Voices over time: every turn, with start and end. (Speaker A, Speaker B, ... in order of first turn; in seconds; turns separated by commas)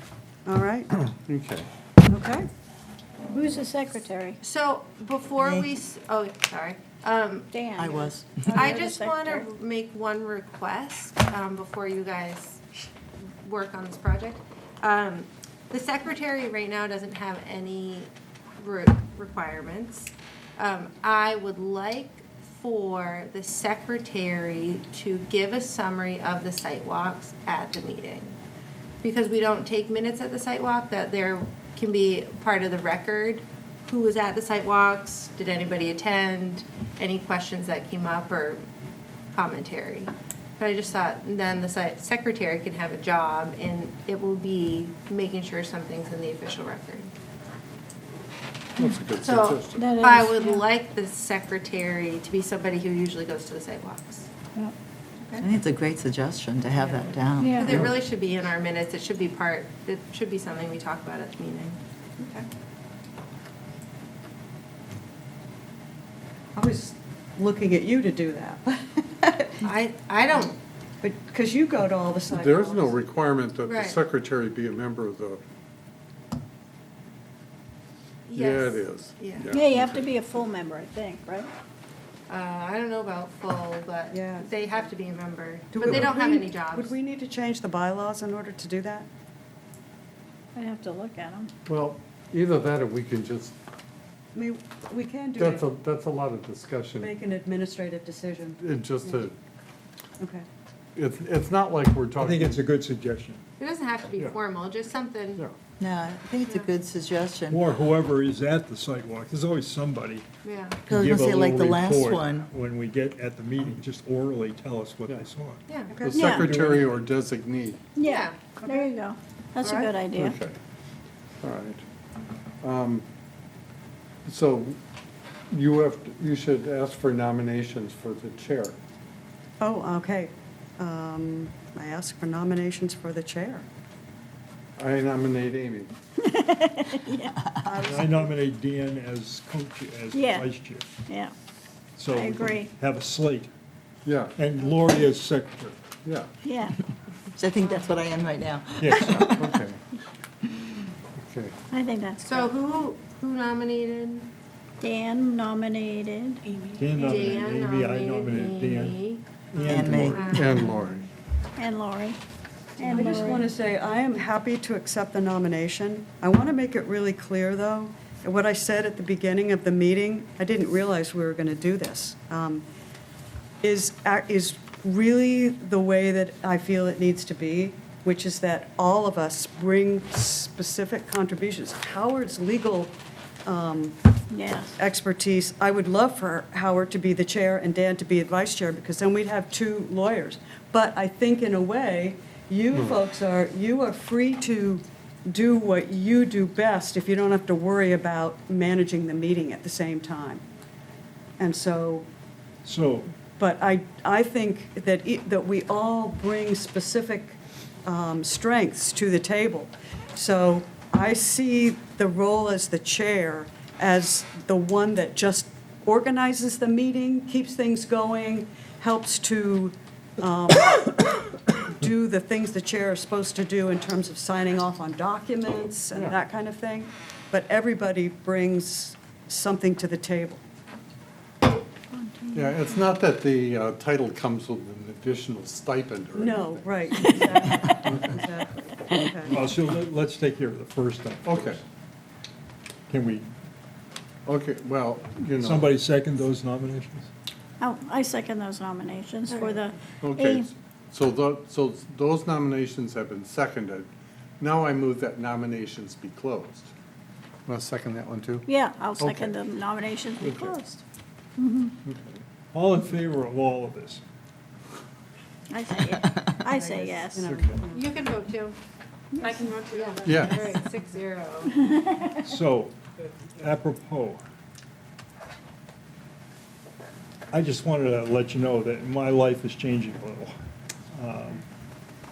Speaker A: 0.5-0.9, Speaker B: 0.9-1.7, Speaker A: 2.1-2.5, Speaker C: 3.3-4.4, Speaker D: 4.4-7.5, Speaker E: 5.4-5.7, Speaker C: 7.5-9.5, Speaker E: 7.8-8.7, Speaker D: 8.5-12.6, Speaker D: 13.4-28.4, Speaker D: 29.0-38.6, Speaker D: 39.3-47.1, Speaker B: 48.8-49.9, Speaker D: 49.2-54.3, Speaker C: 49.8-50.7, Speaker D: 55.2-55.5, Speaker E: 55.4-57.9, Speaker D: 56.8-62.5, Speaker C: 57.4-57.9, Speaker A: 66.5-69.6, Speaker D: 69.6-70.6, Speaker A: 71.0-73.0, Speaker B: 72.3-75.4, Speaker D: 73.7-74.0, Speaker D: 78.3-79.5, Speaker B: 78.3-80.1, Speaker C: 79.5-81.5, Speaker D: 82.3-87.0, Speaker A: 84.1-84.8, Speaker A: 85.7-89.1, Speaker B: 85.8-86.2, Speaker C: 90.6-91.5, Speaker B: 91.7-93.5, Speaker A: 94.3-95.7, Speaker B: 95.4-97.1, Speaker A: 97.0-99.2, Speaker B: 98.6-99.3, Speaker A: 100.2-100.5, Speaker B: 101.0-102.6, Speaker F: 102.2-103.4, Speaker D: 103.6-105.4, Speaker E: 105.8-107.6, Speaker D: 106.4-106.7, Speaker F: 107.5-110.2, Speaker D: 110.4-110.8, Speaker F: 110.9-115.6, Speaker E: 110.9-112.5, Speaker D: 115.7-116.0, Speaker A: 115.9-116.4, Speaker B: 116.1-117.8, Speaker C: 116.1-116.5, Speaker F: 116.3-117.0, Speaker C: 118.0-120.4, Speaker D: 118.0-118.4, Speaker A: 118.6-118.9, Speaker A: 119.6-119.9, Speaker B: 120.1-120.6, Speaker B: 121.4-121.8, Speaker B: 122.6-123.1, Speaker B: 124.3-124.8, Speaker B: 125.5-128.8, Speaker A: 129.6-133.7, Speaker B: 134.8-135.9, Speaker C: 136.2-137.3, Speaker E: 137.2-137.8, Speaker A: 137.6-138.3, Speaker F: 137.8-140.9, Speaker C: 140.1-141.3, Speaker F: 142.0-143.5, Speaker C: 142.1-142.7, Speaker B: 144.1-144.4, Speaker F: 144.4-145.8, Speaker B: 146.0-146.3, Speaker C: 146.4-146.8, Speaker E: 147.3-149.6, Speaker F: 148.8-149.2, Speaker B: 149.1-149.8, Speaker B: 151.2-151.6, Speaker C: 151.7-152.5, Speaker D: 152.2-154.3, Speaker C: 154.8-156.5, Speaker F: 156.8-159.0, Speaker D: 156.9-160.8, Speaker F: 159.5-160.3, Speaker E: 159.7-160.6, Speaker B: 159.8-161.1, Speaker C: 161.6-162.2, Speaker C: 162.8-163.5, Speaker A: 162.8-172.7, Speaker A: 173.6-182.9, Speaker A: 183.5-184.0, Speaker C: 184.3-184.8, Speaker A: 184.8-200.4, Speaker B: 192.7-193.0, Speaker A: 201.4-202.1, Speaker F: 202.6-203.2, Speaker A: 203.3-230.4, Speaker B: 225.5-226.2, Speaker C: 231.9-232.9, Speaker B: 232.3-238.2, Speaker A: 236.1-239.5, Speaker C: 237.1-237.6, Speaker F: 239.3-241.6, Speaker B: 241.2-241.6, Speaker F: 242.9-243.3, Speaker B: 244.3-245.8, Speaker F: 245.4-247.1, Speaker C: 247.6-250.5, Speaker B: 249.9-253.9, Speaker B: 254.4-256.7, Speaker B: 257.5-258.4, Speaker C: 258.5-260.8, Speaker B: 259.0-259.4, Speaker B: 260.2-260.6, Speaker C: 261.4-261.7, Speaker B: 261.9-262.2, Speaker F: 262.5-264.0, Speaker C: 265.5-267.5, Speaker A: 266.4-267.9, Speaker D: 267.7-268.6, Speaker C: 269.1-269.5, Speaker D: 269.2-271.6, Speaker B: 270.1-270.5, Speaker C: 271.6-272.2, Speaker F: 272.2-274.2, Speaker F: 277.3-280.3, Speaker F: 280.9-281.5